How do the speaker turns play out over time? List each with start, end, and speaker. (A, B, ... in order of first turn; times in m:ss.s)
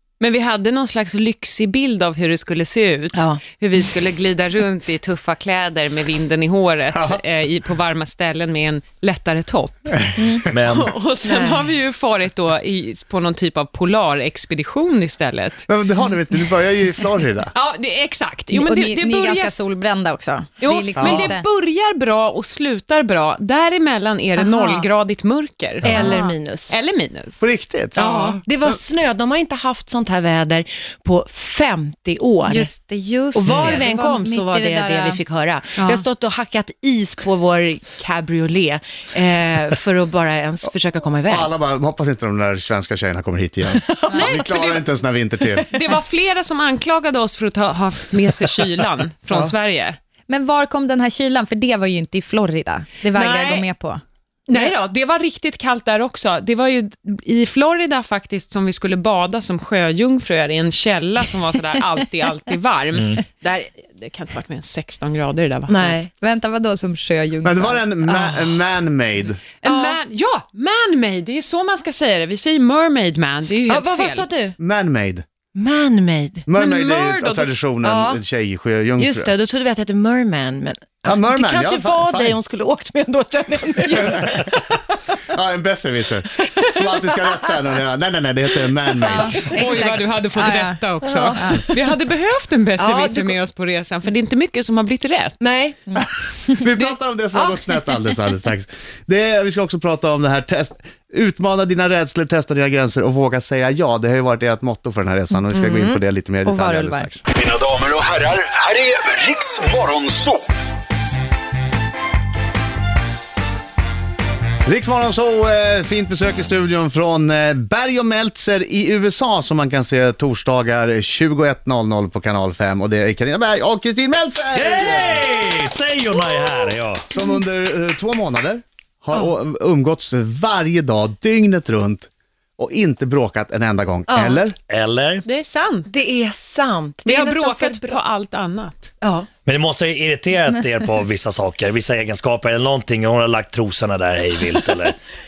0:00.2-0:10.0 A
0:03.1-0:03.4 B
0:06.9-0:07.2 C
0:10.2-0:10.5 D
0:10.5-0:11.0 E
0:10.7-0:15.7 A
0:11.2-0:11.7 B
0:15.7-0:17.5 C
0:17.5-0:19.7 A
0:18.5-0:21.5 D
0:20.6-0:26.1 A
0:21.0-0:21.3 C
0:24.5-0:24.9 D
0:25.8-0:26.1 C
0:25.8-0:26.8 B
0:26.0-0:26.4 D
0:26.7-0:27.4 A
0:27.4-0:28.0 C
0:28.0-0:32.7 B
0:28.0-0:28.4 A
0:32.5-0:35.2 D
0:33.3-0:41.5 B
0:33.5-0:33.8 C
0:35.8-0:36.0 A
0:41.3-0:45.7 C
0:43.7-0:44.2 B
0:44.1-0:44.9 A
0:45.5-0:45.9 B
0:45.7-0:50.0 A
0:50.3-0:54.7 D
0:53.1-0:53.7 A
0:54.5-1:06.0 A
1:02.9-1:03.2 E
1:05.7-1:06.1 B
1:06.2-1:07.9 D
1:07.4-1:09.4 C
1:08.0-1:08.6 B
1:09.6-1:14.3 A
1:09.6-1:10.0 B
1:13.7-1:14.6 B
1:14.6-1:15.2 C
1:15.6-1:16.5 B
1:16.5-1:19.3 C
1:16.6-1:17.6 A
1:17.8-1:18.2 B
1:19.0-1:24.8 B
1:21.1-1:22.4 C
1:23.9-1:24.5 C
1:25.3-1:29.5 C
1:26.4-1:27.5 B
1:29.1-1:30.8 D
1:29.5-1:35.4 A
1:31.0-1:31.7 B
1:31.4-1:31.6 D
1:32.8-1:33.4 B
1:35.4-1:35.9 B
1:36.0-1:47.2 C
1:37.3-1:38.3 B
1:45.5-1:46.0 B
1:46.4-1:47.1 D
1:48.1-1:50.3 F
1:54.7-2:05.3 C
2:04.5-2:07.1 E
2:07.1-2:14.6 C
2:14.1-2:14.4 B
2:14.7-2:15.3 E
2:15.2-2:15.9 A
2:15.9-2:18.0 B
2:17.0-2:18.9 A
2:19.0-2:19.3 B
2:19.4-2:25.0 E